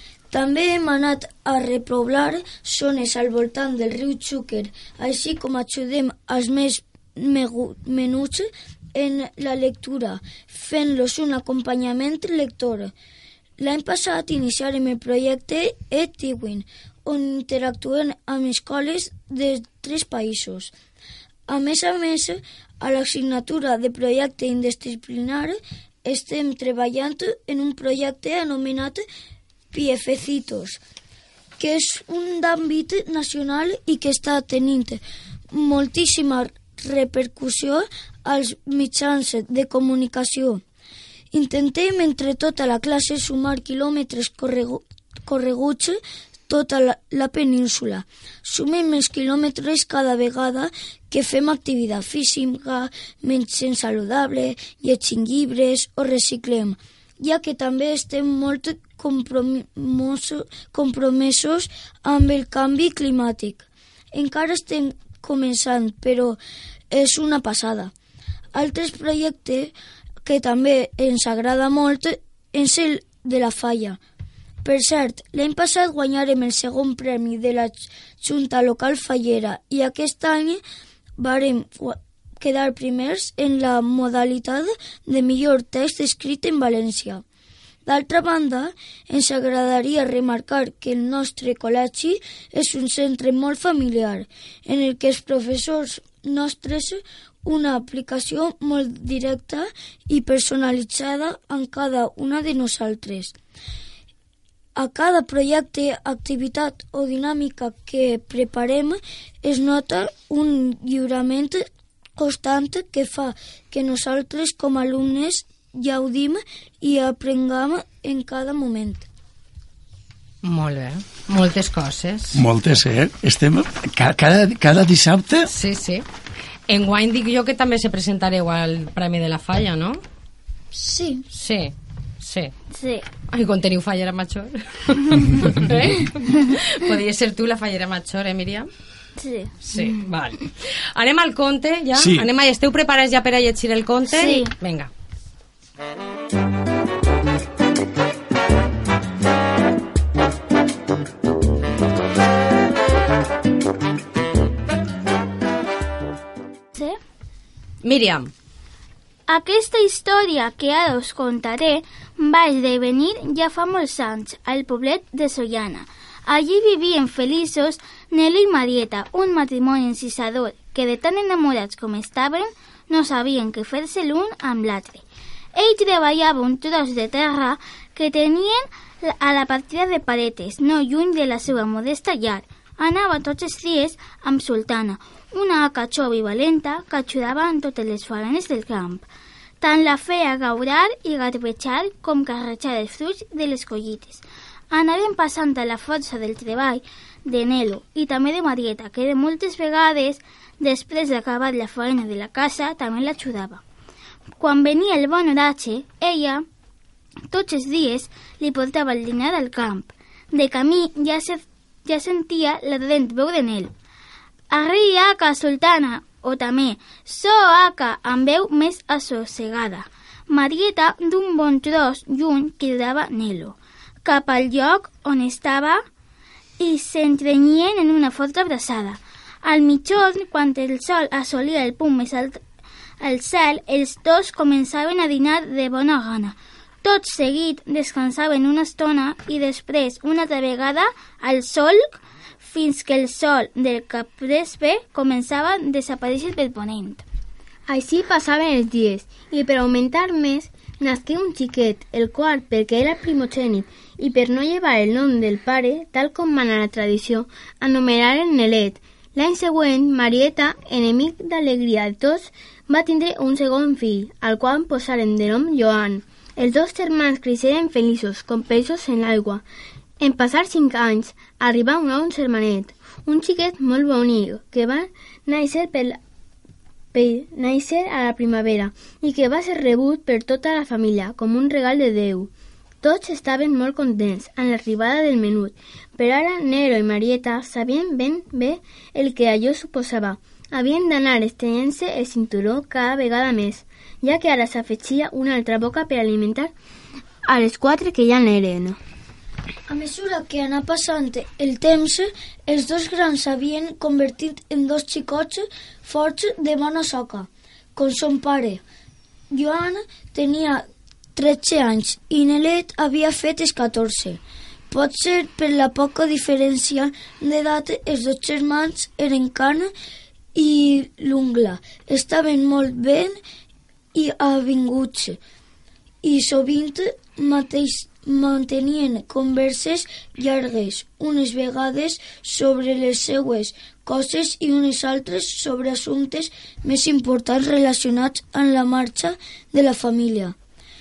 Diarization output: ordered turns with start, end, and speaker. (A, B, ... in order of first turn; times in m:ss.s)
0:00.3-0:12.9 A
0:13.6-0:20.7 A
0:21.5-0:29.0 A
0:29.7-0:30.8 A
0:31.6-0:40.6 A
0:41.3-1:06.4 A
1:06.9-1:07.9 A
1:08.5-1:09.7 A
1:10.2-1:14.0 A
1:14.6-1:20.6 A
1:21.2-1:27.2 A
1:27.8-1:43.3 A
1:44.7-1:59.0 A
2:00.4-2:02.4 B
2:02.3-2:05.5 C
2:05.5-2:06.0 B
2:06.7-2:10.0 B
2:10.7-2:11.2 A
2:11.3-2:12.5 B
2:12.7-2:13.0 D
2:13.3-2:18.7 B
2:19.2-2:19.5 D
2:19.6-2:24.9 B
2:21.9-2:22.3 C
2:24.1-2:24.5 D
2:36.7-2:37.0 D
2:37.8-2:38.3 B
2:39.3-2:55.0 D
2:55.5-3:09.0 D
3:09.6-3:23.6 D
3:24.4-3:26.4 D
3:27.3-3:33.7 D
3:34.5-3:45.8 D
3:46.6-3:52.4 D
3:53.0-4:07.0 D
4:07.7-4:29.4 E
4:30.0-4:36.0 E
4:36.9-4:42.3 E
4:42.8-4:56.5 E
4:57.2-4:58.8 E
4:59.7-5:08.6 A
5:09.3-5:14.2 A
5:14.7-5:19.7 A
5:20.3-5:23.2 A
5:23.9-5:25.2 A
5:26.0-5:40.3 A